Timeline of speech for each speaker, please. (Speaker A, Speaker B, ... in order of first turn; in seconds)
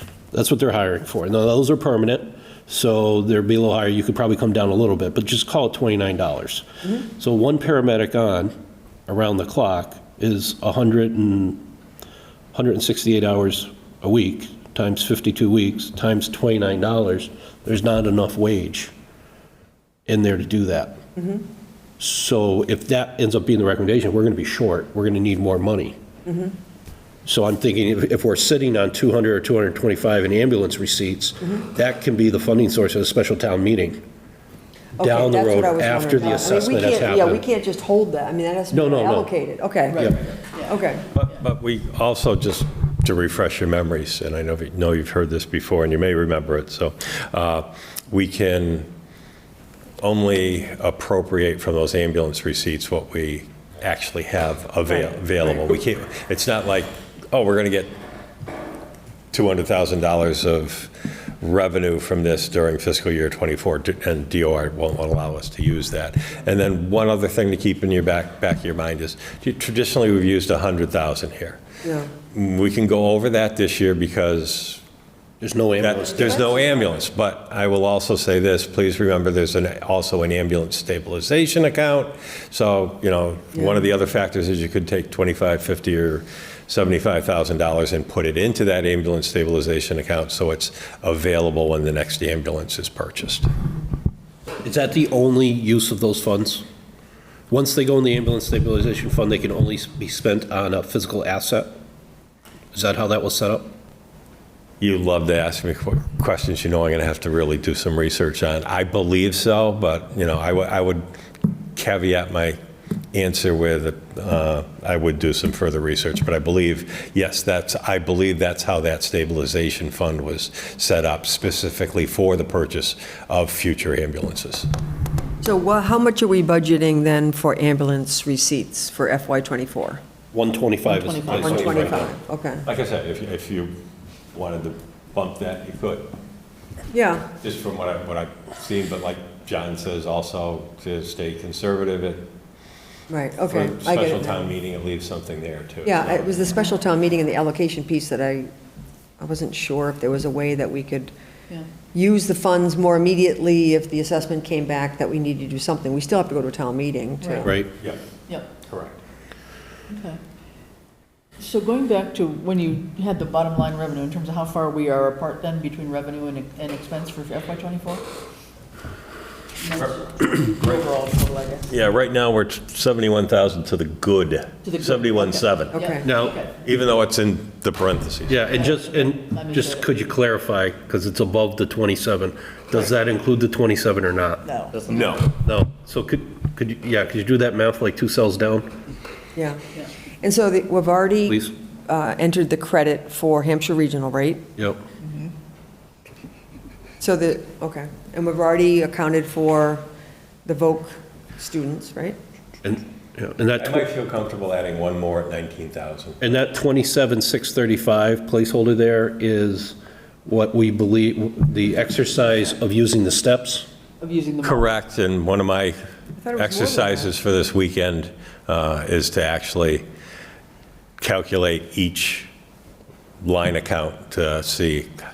Speaker A: 0.3-8.5, 9.1-11.6, 12.5-18.9, 20.1-21.0, 22.0-25.9, 27.2-34.0, 35.0-37.4, 38.7-39.3, 75.4-76.5, 94.6-96.6, 97.5-101.7, 102.7-103.7, 130.3-132.1, 157.4-157.7, 176.0-176.4, 178.3-184.5, 185.2-188.8, 191.3-191.5, 194.6-194.8, 202.6-203.9, 206.2-213.7
Speaker B: 21.1-21.4, 26.2-26.6, 35.0-41.1, 71.8-72.1, 125.4-130.0, 131.3-132.7, 136.9-137.3, 143.1-144.4, 145.8-148.5, 149.2-151.1, 151.9-157.6, 175.7-176.1, 189.3-189.6, 190.2-194.4, 197.0-199.8, 200.4-202.2, 216.2-217.1
Speaker C: 39.9-40.8, 130.8-131.8, 157.2-157.5, 159.9-160.2, 161.4-168.1, 169.6-171.7, 174.6-176.6, 178.5-179.9, 214.0-214.7
Speaker D: 41.1-48.9, 50.0-58.0, 59.3-71.6, 72.3-74.8, 75.8-93.5, 104.8-111.0, 111.7-112.6, 113.1-124.7, 131.3-132.1, 132.6-133.8, 134.3-136.1, 137.4-142.3, 143.5-146.4, 158.6-158.9, 171.7-175.8, 176.6-178.5, 184.7-185.3, 203.6-206.3, 214.4-215.8, 216.3-219.8, 221.0-222.3, 223.2-224.9